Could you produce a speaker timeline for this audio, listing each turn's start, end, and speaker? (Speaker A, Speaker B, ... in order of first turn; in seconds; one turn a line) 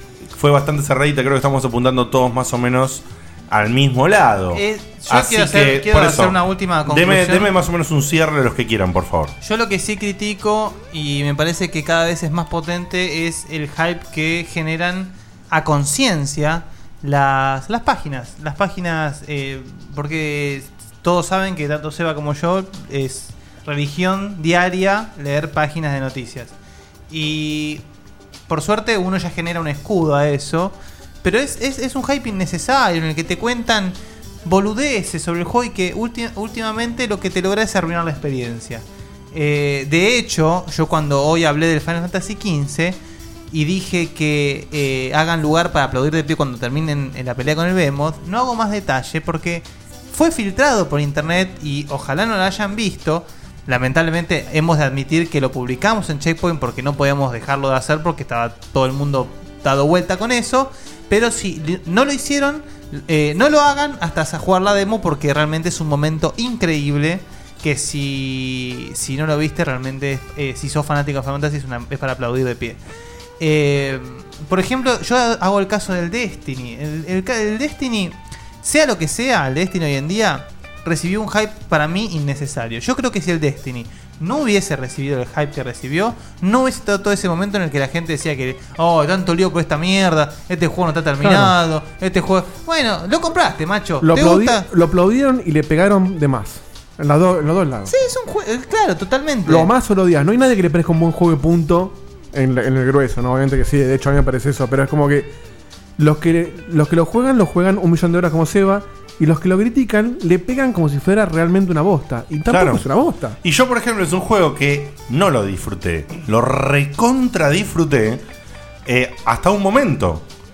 Speaker A: 0.3-9.3
Speaker B: 4.5-7.5
Speaker B: 9.4-26.6
Speaker B: 27.1-27.8
Speaker B: 28.5-43.0
Speaker B: 43.5-72.8
Speaker B: 73.4-94.7
Speaker C: 91.2-91.5
Speaker C: 94.0-97.9
Speaker B: 97.9-99.7
Speaker C: 99.5-105.3
Speaker C: 106.0-113.4
Speaker A: 112.5-112.8
Speaker A: 113.4-118.2
Speaker A: 118.8-120.2